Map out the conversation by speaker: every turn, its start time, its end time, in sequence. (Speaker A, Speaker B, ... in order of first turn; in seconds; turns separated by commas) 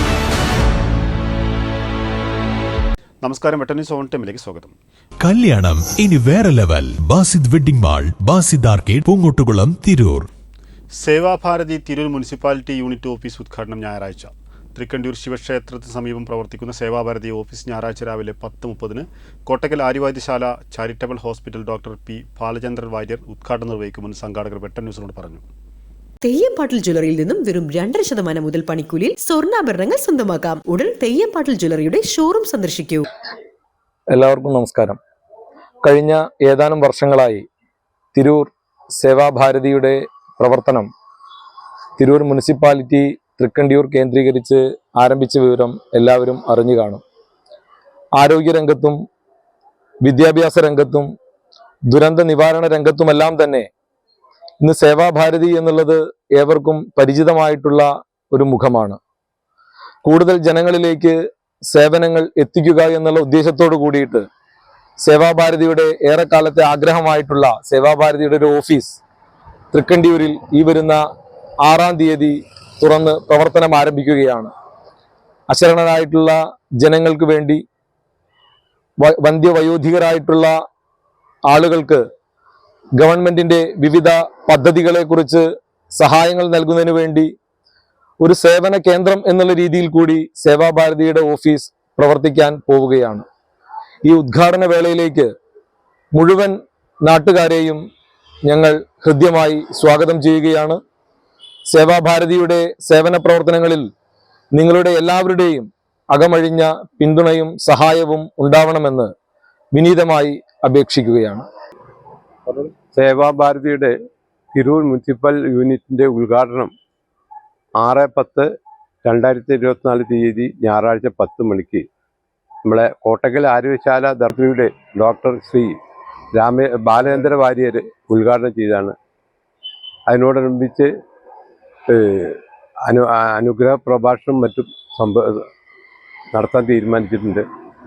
Speaker A: 3.2-4.8, Speaker B: 5.2-10.3, Speaker A: 10.9-25.4, Speaker C: 26.2-33.1, Speaker D: 34.1-35.0, Speaker D: 35.8-37.5, Speaker D: 38.1-40.9, Speaker D: 42.0-47.0, Speaker D: 48.2-49.0, Speaker D: 50.0-51.1, Speaker D: 51.9-53.7, Speaker D: 54.6-59.0, Speaker D: 60.0-64.3, Speaker D: 65.0-69.0, Speaker D: 69.7-71.0, Speaker D: 71.6-74.5, Speaker D: 75.5-77.6, Speaker D: 79.0-80.5, Speaker D: 81.5-82.0, Speaker D: 83.0-87.3, Speaker D: 88.2-93.2, Speaker D: 94.0-95.3, Speaker D: 96.2-97.8, Speaker D: 98.5-100.8, Speaker D: 101.7-103.9, Speaker D: 104.5-109.1, Speaker D: 109.7-111.5, Speaker E: 112.5-113.9, Speaker E: 114.5-116.7, Speaker E: 117.8-118.5, Speaker E: 119.0-121.9, Speaker E: 122.7-125.8, Speaker E: 126.3-128.9, Speaker E: 130.1-130.9, Speaker E: 131.9-135.5, Speaker E: 136.3-137.4